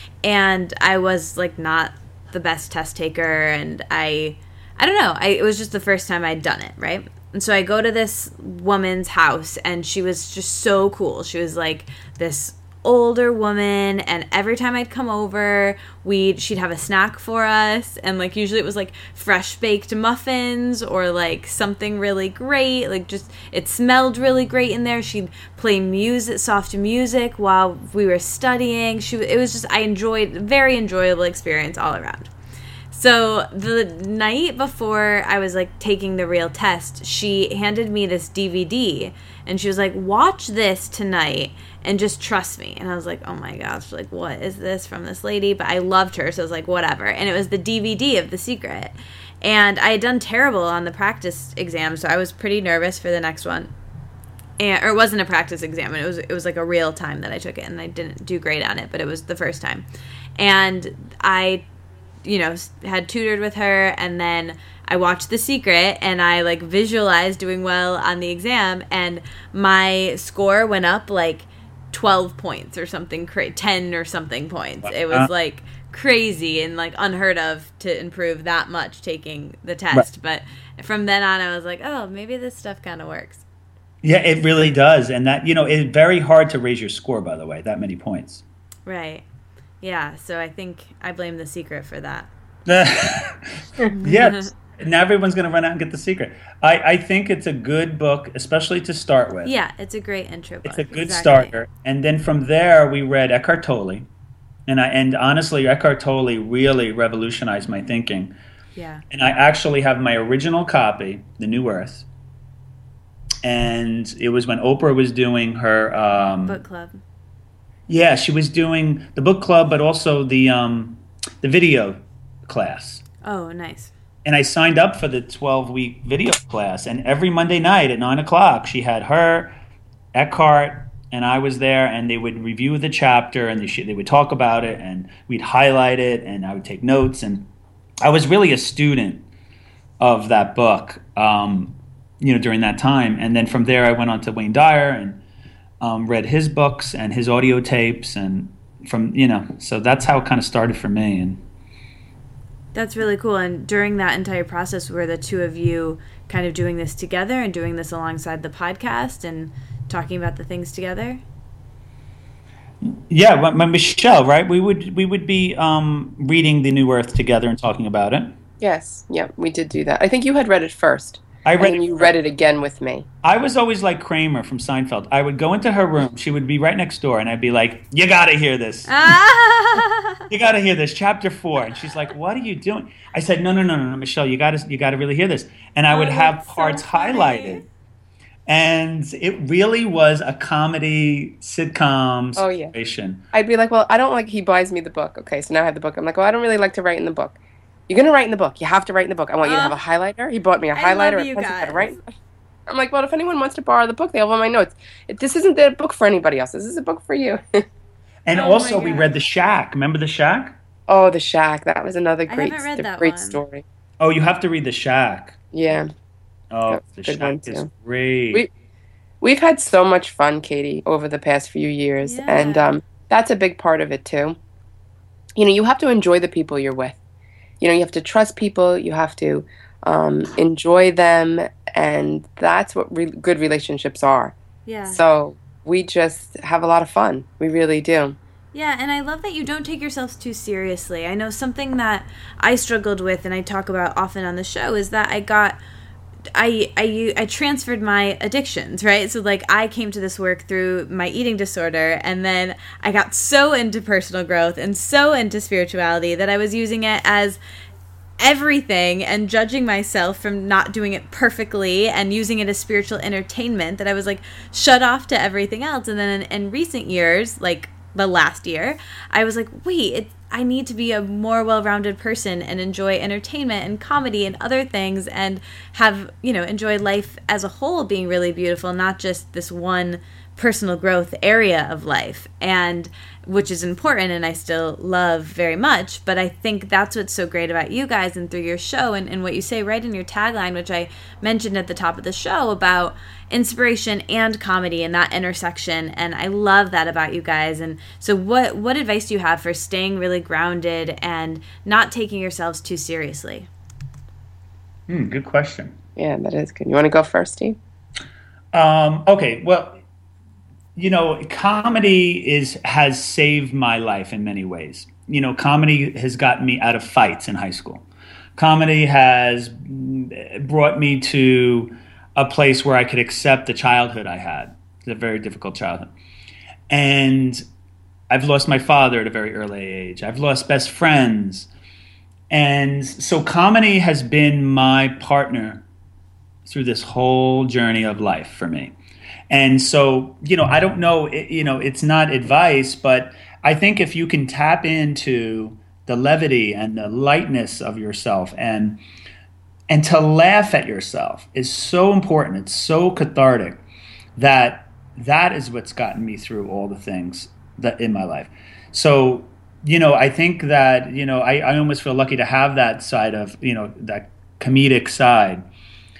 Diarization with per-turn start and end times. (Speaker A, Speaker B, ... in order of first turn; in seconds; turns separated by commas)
Speaker A: 0.2-32.3, Speaker A: 32.9-53.7, Speaker A: 54.6-59.8, Speaker A: 60.4-61.7, Speaker A: 62.2-83.4, Speaker B: 74.8-75.3, Speaker B: 84.0-88.4, Speaker A: 88.9-89.2, Speaker A: 89.8-92.3, Speaker B: 92.7-99.5, Speaker A: 93.9-94.5, Speaker A: 99.5-101.5, Speaker B: 100.7-104.1, Speaker B: 104.7-108.3, Speaker A: 108.8-109.0, Speaker B: 109.1-112.1, Speaker B: 113.4-116.6, Speaker A: 116.5-117.0, Speaker B: 117.9-123.0, Speaker A: 123.2-123.9, Speaker B: 124.2-129.5, Speaker B: 130.1-137.5, Speaker B: 138.0-139.2, Speaker B: 140.0-145.2, Speaker B: 145.8-151.4, Speaker A: 152.7-161.2, Speaker B: 162.8-168.3, Speaker C: 168.6-173.1, Speaker B: 171.4-172.1, Speaker B: 173.2-179.2, Speaker A: 178.9-180.2, Speaker B: 180.3-187.6, Speaker A: 185.9-187.6, Speaker B: 188.5-193.2, Speaker C: 192.4-192.7, Speaker C: 193.3-197.4, Speaker C: 197.9-202.0, Speaker A: 199.4-199.8, Speaker A: 200.7-202.0, Speaker C: 202.7-207.7, Speaker B: 208.2-210.6, Speaker A: 208.3-209.1, Speaker C: 210.9-213.6, Speaker A: 212.3-213.4, Speaker B: 214.0-215.4, Speaker C: 215.5-215.9, Speaker B: 216.5-218.4, Speaker C: 216.7-217.7, Speaker C: 219.2-224.4, Speaker A: 222.0-222.8, Speaker C: 225.4-227.0, Speaker C: 227.6-238.2, Speaker A: 234.7-235.0, Speaker A: 238.5-245.6, Speaker A: 246.3-257.4, Speaker A: 258.2-303.5, Speaker B: 304.9-305.8, Speaker C: 306.0-307.6, Speaker B: 308.5-309.8, Speaker B: 310.8-317.8, Speaker B: 318.4-325.9, Speaker B: 326.7-327.4, Speaker B: 328.1-331.5, Speaker B: 332.3-335.6, Speaker B: 336.5-338.8, Speaker B: 339.3-348.8, Speaker B: 349.7-353.6, Speaker B: 354.2-365.4